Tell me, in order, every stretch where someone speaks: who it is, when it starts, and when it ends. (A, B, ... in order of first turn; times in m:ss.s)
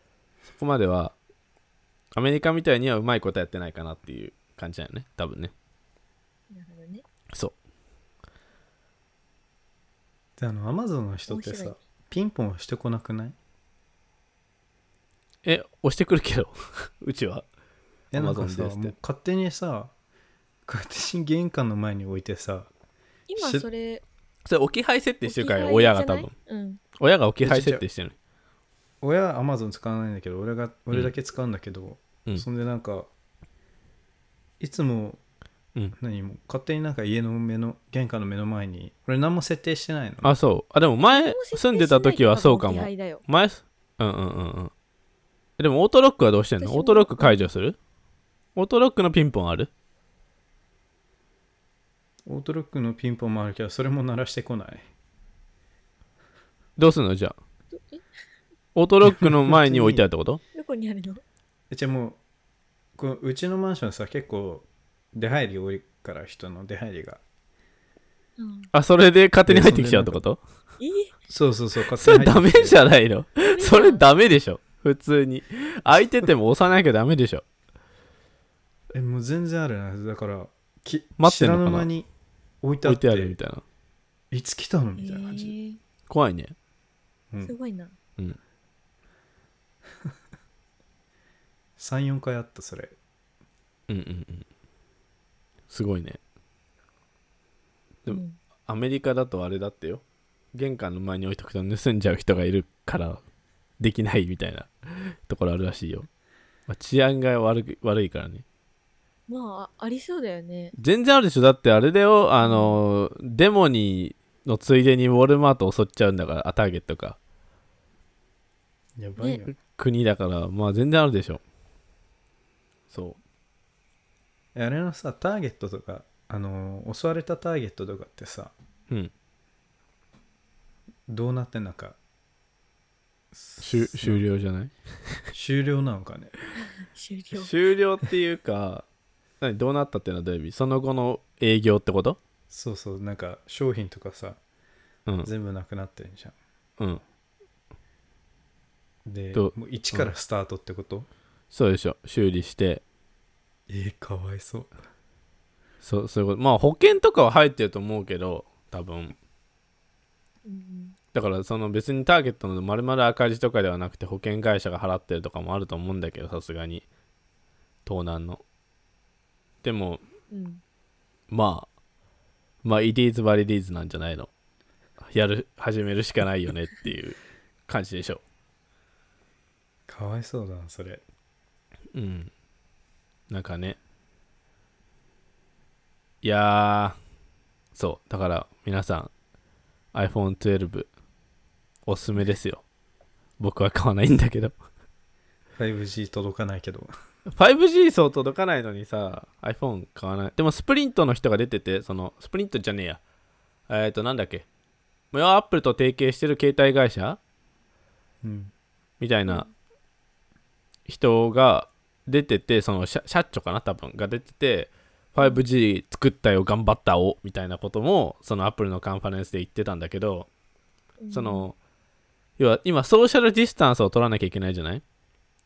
0:00.5-0:01.2 A
0:02.2-0:05.5 A
0:06.5-0:07.0 B
0:10.4-0:13.4 C
0:11.3-0:11.8 B
0:15.4-0:17.4 A
0:18.1-0:19.9 C
0:18.1-0:18.9 A
0:20.7-0:22.7 C
0:23.3-0:24.0 B
0:23.4-0:23.7 C
0:24.5-0:26.3 A
0:25.2-0:26.8 B
0:27.0-0:28.1 A
0:27.4-0:27.8 C
0:29.0-0:33.1 C
0:34.6-0:35.2 C
0:36.0-0:40.3 C
0:40.2-0:44.7 A
0:41.0-0:43.2 B
0:45.6-0:47.8 A
0:46.6-0:47.5 B
0:48.6-0:49.7 A
0:52.3-0:54.9 C
0:56.8-0:57.4 A
0:57.7-0:58.0 B
0:58.8-1:00.4 A
0:59.1-1:00.0 C
1:00.5-1:01.2 B
1:01.7-1:02.2 C
1:03.0-1:07.2 C
1:08.4-1:08.7 B
1:08.7-1:10.4 A
1:09.5-1:10.2 C
1:10.8-1:11.1 B
1:11.3-1:12.8 C
1:12.0-1:17.4 A
1:13.4-1:14.0 B
1:18.9-1:22.1 C
1:21.2-1:21.9 A
1:22.6-1:23.4 C
1:22.8-1:23.6 A
1:24.3-1:25.5 C
1:25.0-1:25.8 B
1:26.1-1:26.6 A
1:27.4-1:28.0 B
1:31.8-1:33.0 C
1:33.9-1:34.5 A
1:35.7-1:36.2 A
1:38.1-1:40.0 A
1:38.1-1:38.4 B
1:40.5-1:43.2 A
1:43.8-1:46.1 A
1:46.7-1:48.4 A
1:49.3-1:50.8 B
1:50.8-1:57.2 A
1:52.4-1:52.8 B
1:59.0-1:59.5 C
1:59.2-1:59.4 B
1:59.6-2:01.4 A
2:02.9-2:03.2 A
2:04.6-2:08.5 C
2:11.1-2:12.0 C
2:13.3-2:14.2 C
2:13.6-2:15.2 A
2:15.3-2:16.3 C
2:16.6-2:17.5 B
2:17.3-2:18.9 A
2:19.4-2:22.2 A
2:22.5-2:24.4 C
2:25.2-2:26.4 C
2:29.0-2:31.1 C
2:29.3-2:30.1 A
2:31.5-2:32.8 A
2:33.7-2:34.7 C
2:35.8-2:39.2 A
2:40.4-2:41.0 B
2:41.1-2:46.8 A
2:47.9-2:48.4 A
2:49.6-2:50.0 A
2:50.3-2:50.6 B
2:51.3-2:51.7 A
2:52.6-2:54.3 A
2:55.0-2:58.2 A
2:59.9-3:01.0 C
3:01.9-3:02.3 A
3:03.3-3:03.8 A
3:06.2-3:07.0 A
3:07.8-3:09.1 A
3:09.9-3:10.9 A
3:11.9-3:12.6 A
3:13.4-3:14.6 A
3:15.6-3:16.9 C
3:17.3-3:23.0 A
3:23.7-3:24.5 A
3:25.1-3:27.2 A
3:28.2-3:28.5 C
3:29.0-3:29.5 A
3:30.9-3:40.3 A
3:41.0-3:41.5 B
3:41.1-3:41.6 A
3:42.4-3:44.8 A